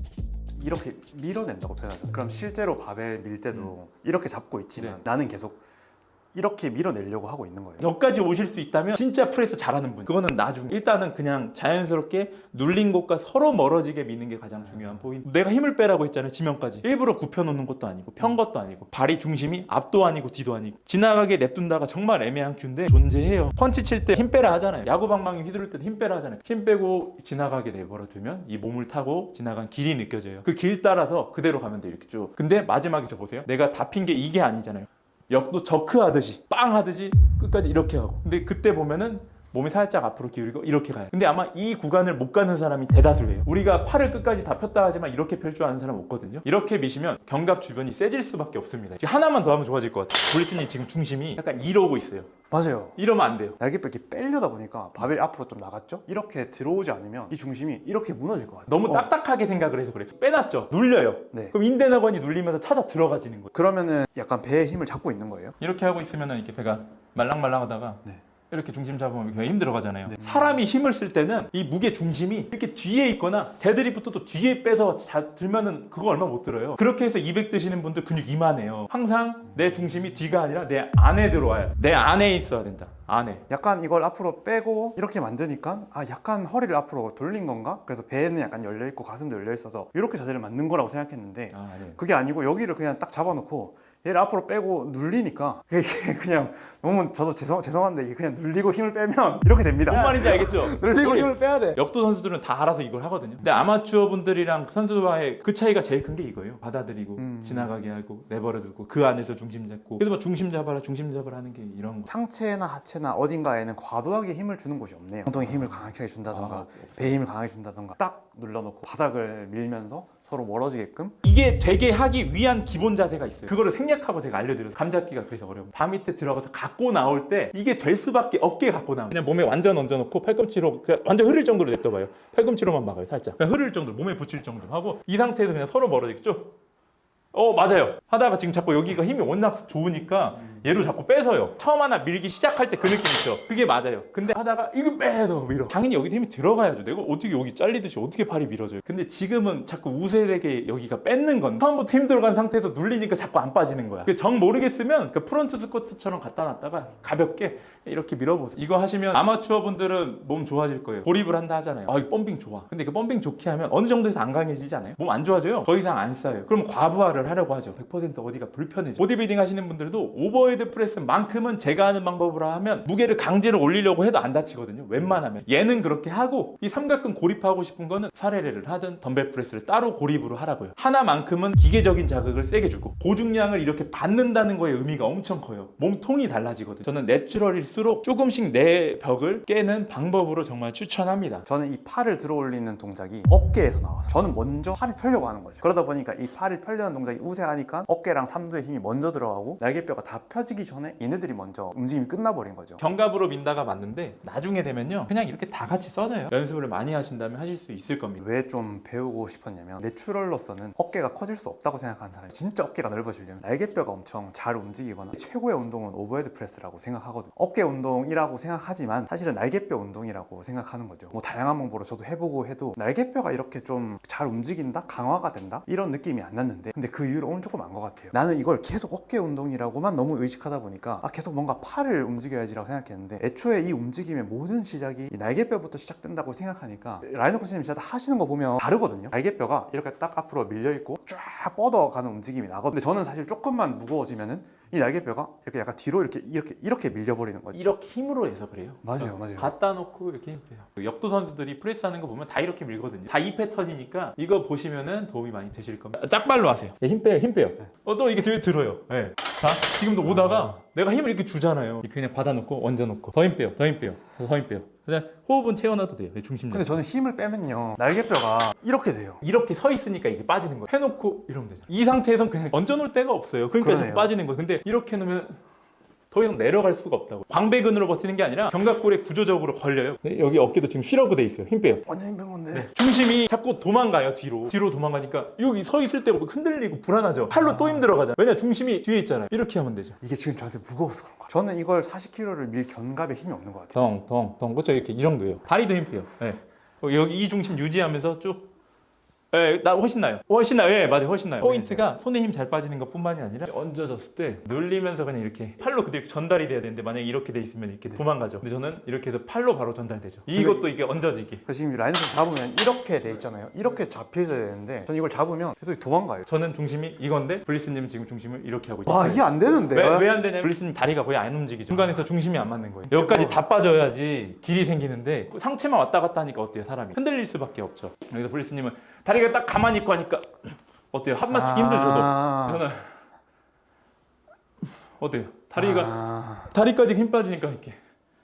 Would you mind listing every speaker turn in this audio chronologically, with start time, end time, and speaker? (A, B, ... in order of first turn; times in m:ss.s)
0:00.6-0:05.6 A
0:06.3-0:07.8 A
0:07.8-0:52.3 B
0:14.7-0:15.0 A
0:52.5-0:53.0 A
0:53.0-0:53.6 B
0:53.6-0:59.1 A
0:58.7-1:03.5 B
1:03.5-1:05.6 A
1:05.6-1:23.4 B
1:10.1-1:10.6 A
1:23.5-1:41.8 A
1:31.5-1:32.0 B
1:39.9-1:52.1 B
1:47.2-1:47.7 A
1:52.1-2:01.2 A
1:56.3-1:57.2 B
2:01.2-2:16.5 B
2:17.3-3:11.5 B
3:11.5-3:22.8 A
3:22.8-3:28.2 B
3:28.2-4:07.6 A
4:07.5-4:26.8 B
4:08.8-4:09.5 A
4:20.0-4:20.6 A
4:26.5-4:29.2 A
4:29.2-4:35.4 B
4:33.6-4:34.2 A
4:36.1-4:41.8 B
4:41.9-4:42.7 A
4:42.5-4:50.0 B
4:47.3-4:47.9 A
4:50.0-4:53.8 A
4:53.7-4:58.5 B
4:59.3-5:11.4 B
5:01.4-5:01.9 A
5:10.3-5:10.7 A
5:11.5-5:16.3 A
5:16.3-5:32.9 B
5:18.9-5:20.1 A
5:21.7-5:22.0 A
5:22.9-5:23.4 A
5:31.3-5:32.6 A
5:35.0-5:36.0 B
5:35.6-5:36.5 A
5:36.5-5:37.8 B